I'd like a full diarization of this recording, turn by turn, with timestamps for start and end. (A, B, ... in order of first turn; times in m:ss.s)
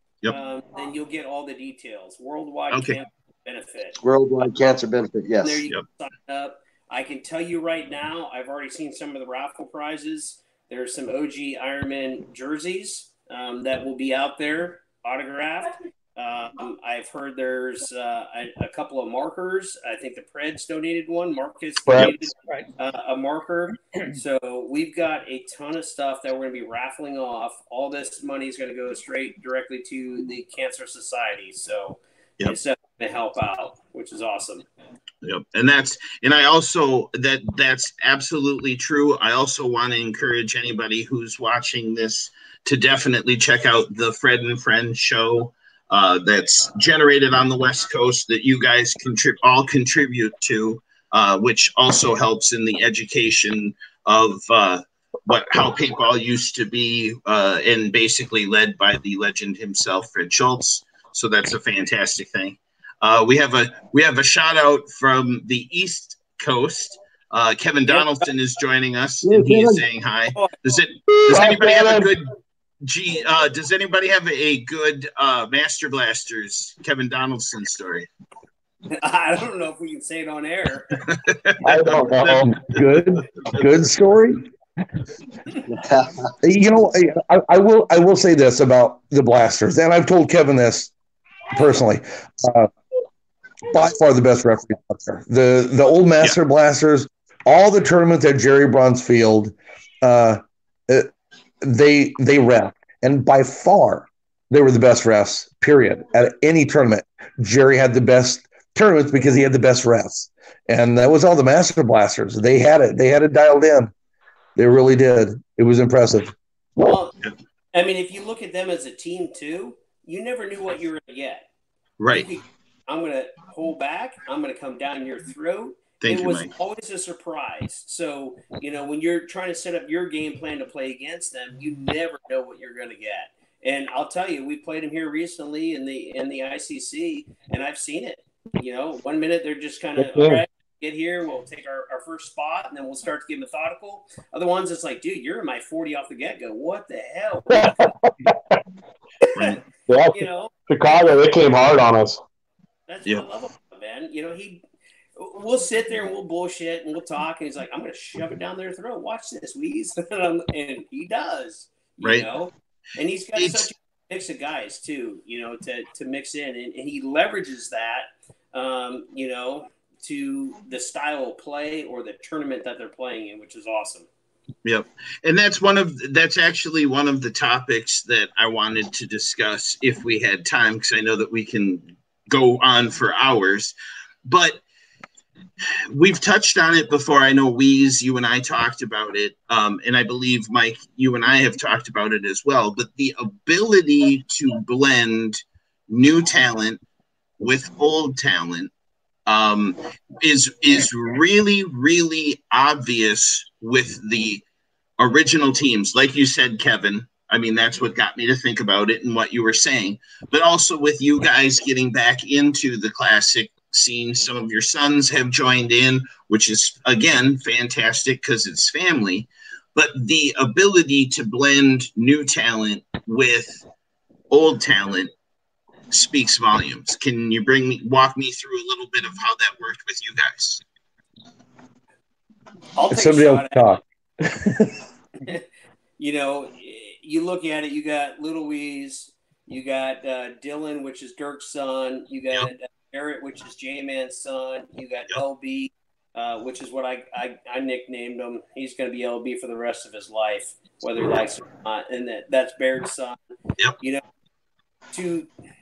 0:00.3-0:04.0 A
0:02.7-0:03.0 B
0:04.0-0:05.6 C
0:05.4-0:34.7 A
0:21.9-0:22.2 D
0:35.2-1:12.3 B
1:07.9-1:08.2 A
1:09.2-1:09.8 C
1:11.3-1:12.1 D
1:12.8-1:18.1 B
1:18.9-1:21.0 A
1:21.0-1:22.8 B
1:21.6-1:22.5 D
1:22.4-1:24.5 E
1:25.7-1:26.3 C
1:26.4-1:30.9 E
1:31.5-1:32.7 E
1:33.7-1:41.1 E
1:41.6-1:53.9 E
1:54.6-1:56.4 E
1:56.8-1:57.2 A
1:57.7-2:01.5 A
2:02.0-2:02.3 B
2:02.1-2:27.9 A
2:06.0-2:06.5 B
2:20.0-2:20.4 D
2:27.5-2:28.6 D
2:29.3-2:29.6 A
2:29.4-2:29.6 B
2:29.9-2:32.2 D
2:30.1-2:30.5 A
2:32.9-2:34.6 A
2:35.2-2:54.1 A
2:42.0-2:42.3 B
2:43.4-2:43.7 B
2:54.6-3:03.8 B
3:04.3-3:04.6 B
3:05.9-3:16.8 B
3:17.4-3:18.7 B
3:19.3-3:24.4 B
3:25.0-3:43.6 B
3:44.3-3:45.1 B
3:45.9-3:50.6 B
3:52.8-3:53.8 A
3:52.9-3:54.8 E
3:56.0-4:14.0 A
4:14.9-4:15.3 A